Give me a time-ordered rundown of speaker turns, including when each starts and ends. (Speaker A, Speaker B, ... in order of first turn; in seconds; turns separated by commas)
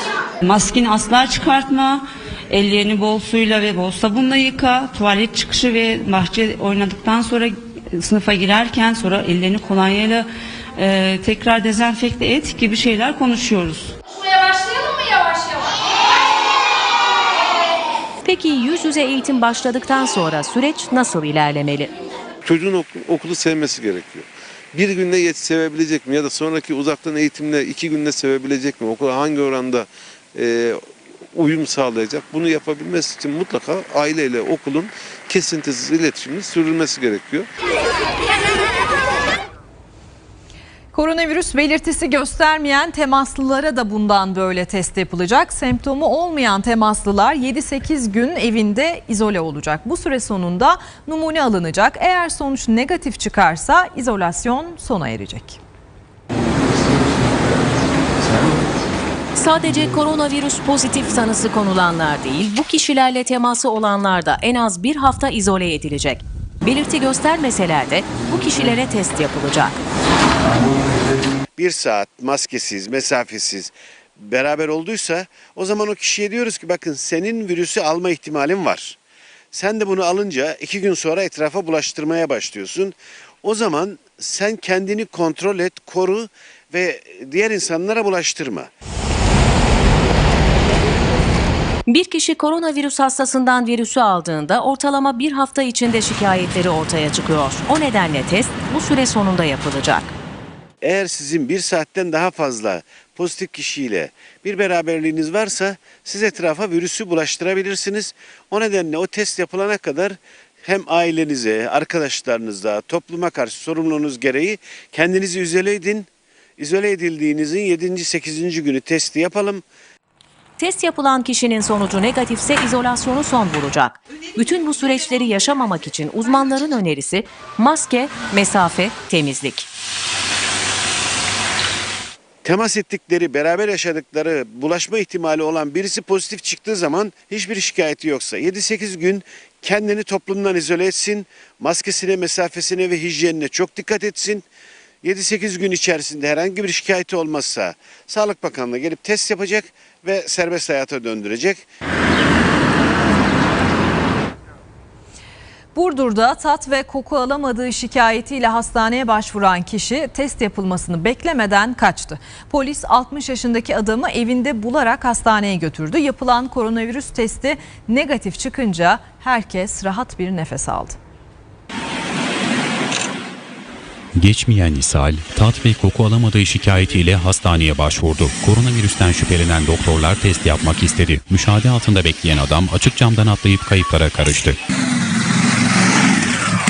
Speaker A: 0.4-13.9, Speaker B: 18.2-21.9, Speaker C: 22.4-37.5, Speaker D: 40.9-55.6, Speaker B: 59.4-69.8, Speaker E: 71.6-79.0, Speaker E: 79.5-88.7, Speaker B: 91.9-100.1, Speaker E: 100.8-119.6, Speaker B: 120.6-129.7, Speaker E: 132.4-144.4, Speaker E: 145.0-151.6, Speaker D: 155.7-171.0, Speaker F: 174.2-184.6